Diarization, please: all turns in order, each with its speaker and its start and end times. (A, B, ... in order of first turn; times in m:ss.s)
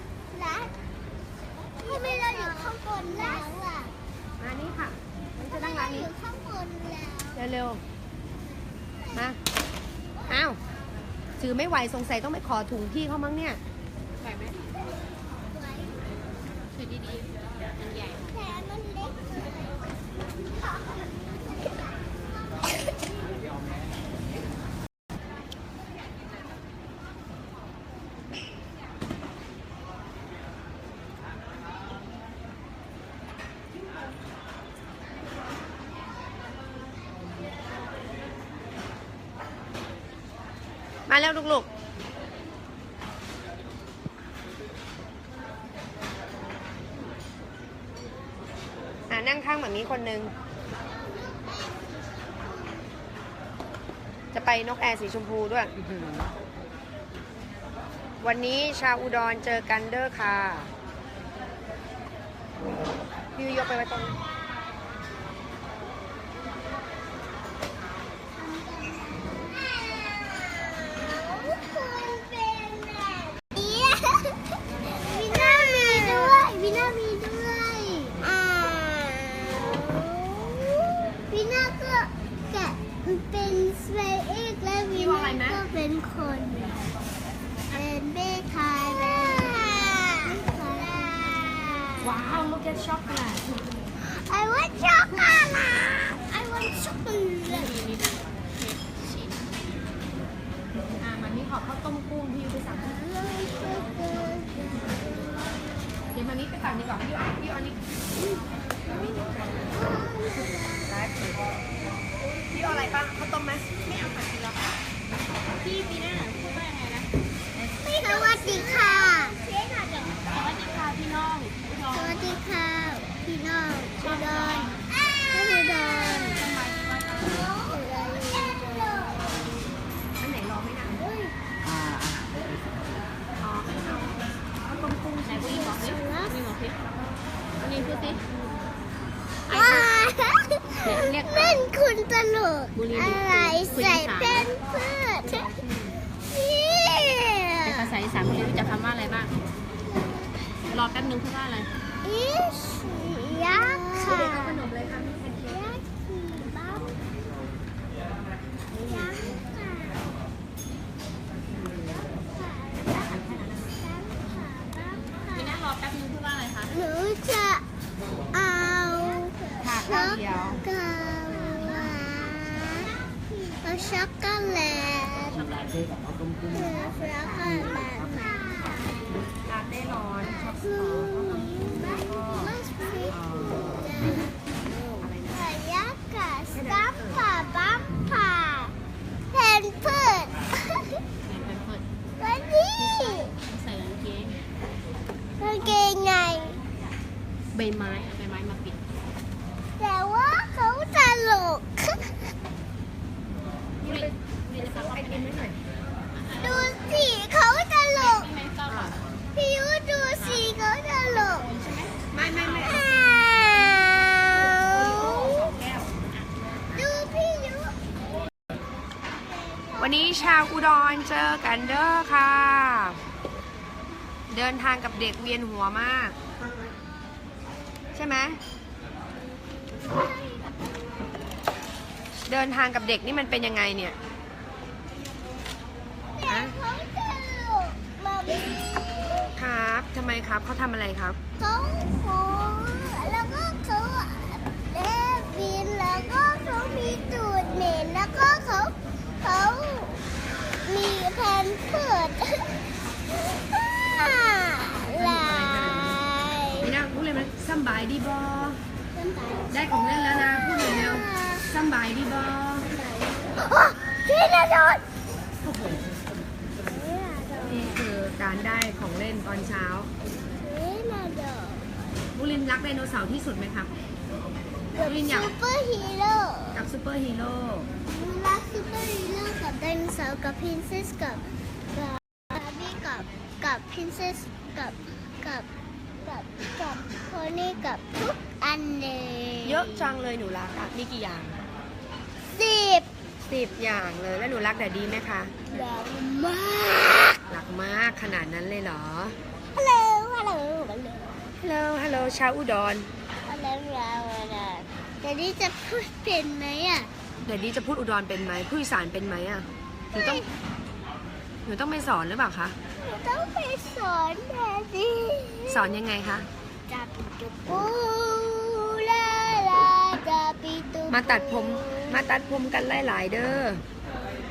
0:00.3-0:00.8 A
0:01.8-0:03.9 A
0:01.9-0:02.7 B
0:04.4-0:06.1 B
0:05.5-0:07.4 A
0:07.3-0:07.8 B
0:09.0-0:09.3 A
0:10.2-0:10.4 A
0:10.3-0:10.6 B
0:11.4-0:13.6 B
0:14.2-0:14.7 C
0:15.5-0:16.0 A
0:16.7-0:18.6 C
0:18.3-0:20.0 A
0:20.5-0:21.8 A
0:41.1-0:41.7 B
0:49.1-0:50.3 B
0:51.0-0:52.9 A
0:54.3-0:56.3 B
0:58.2-1:00.7 B
1:03.4-1:04.2 B
1:08.4-1:26.8 A
1:24.9-1:25.6 B
1:27.7-1:32.2 A
1:32.0-1:33.4 B
1:34.0-1:37.7 A
1:37.5-1:39.5 C
1:41.0-1:43.0 B
1:42.7-1:44.6 A
1:46.1-1:47.8 B
1:49.7-1:50.9 A
1:50.9-1:51.5 B
1:52.5-1:54.2 B
1:54.2-1:54.5 C
1:55.6-1:57.1 C
1:57.8-1:59.4 A
1:58.1-1:58.9 C
1:59.5-2:02.3 C
2:01.9-2:06.4 A
2:04.0-2:04.8 C
2:05.7-2:07.5 C
2:07.2-2:09.4 A
2:10.2-2:11.0 B
2:11.0-2:11.3 A
2:13.4-2:15.8 B
2:15.2-2:16.8 C
2:15.7-2:16.4 A
2:17.6-2:18.2 C
2:19.5-2:20.0 C
2:19.5-2:25.5 A
2:20.8-2:21.6 C
2:22.7-2:24.5 C
2:26.3-2:28.0 A
2:27.6-2:29.4 C
2:30.0-2:30.3 A
2:30.6-2:31.7 C
2:32.0-2:36.9 A
2:33.7-2:35.7 B
2:38.7-2:39.1 B
2:38.7-2:40.0 A
2:41.5-2:42.1 B
2:42.3-2:45.6 A
2:42.8-2:43.7 B
2:45.3-2:46.7 C
2:46.7-2:47.6 A
2:48.3-2:52.9 A
2:49.6-2:50.6 B
2:53.6-2:55.4 A
2:55.4-2:55.8 C
2:56.5-2:59.0 A
2:59.4-3:02.5 B
3:00.2-3:08.7 A
3:03.1-3:03.6 B
3:05.0-3:05.5 B
3:06.5-3:07.2 B
3:09.3-3:11.0 A
3:11.2-3:11.8 C
3:12.2-3:13.3 A
3:12.8-3:14.4 C
3:15.4-3:16.6 A
3:17.5-3:18.8 C
3:19.8-3:22.3 A
3:23.8-3:24.1 B
3:23.8-3:25.4 C
3:24.8-3:25.6 B
3:26.1-3:26.8 C
3:26.4-3:28.3 A
3:27.9-3:29.0 C
3:28.6-3:29.0 B
3:29.3-3:31.5 A
3:30.2-3:30.5 C
3:31.4-3:33.3 C
3:32.1-3:33.0 B
3:32.5-3:35.5 A
3:34.7-3:35.7 B
3:34.7-3:36.3 C
3:36.7-3:37.8 A
3:39.2-3:41.1 A
3:39.8-3:43.0 B
3:44.3-3:46.2 B
3:47.9-3:48.4 B
3:49.7-3:51.2 A
3:52.2-3:54.0 B
3:56.1-3:59.3 A
3:56.3-3:56.5 B
3:59.3-4:01.2 B
4:01.4-4:10.0 A
4:10.6-4:12.5 A
4:13.1-4:16.7 A
4:14.9-4:16.0 B
4:16.6-4:18.6 B
4:18.9-4:21.5 A
4:19.5-4:22.7 B
4:22.7-4:24.8 A
4:25.4-4:25.8 B
4:26.6-4:27.9 A
4:27.4-4:29.9 B
4:30.4-4:31.7 A
4:32.1-4:33.7 B
4:34.7-4:36.7 A
4:34.8-4:35.3 B
4:36.5-4:37.7 B
4:37.9-4:45.5 A
4:46.0-4:50.0 A
4:49.4-4:51.4 B
4:52.3-4:52.9 A
4:53.2-4:55.3 B
4:55.5-4:57.2 A
4:57.3-4:59.2 B
4:59.5-5:01.2 A
5:01.4-5:02.9 B
5:03.2-5:06.9 A
5:07.2-5:10.2 B
5:09.9-5:10.3 A
5:11.4-5:12.6 B
5:12.8-5:15.7 A
5:15.5-5:16.3 B
5:16.7-5:22.6 A
5:20.9-5:23.6 B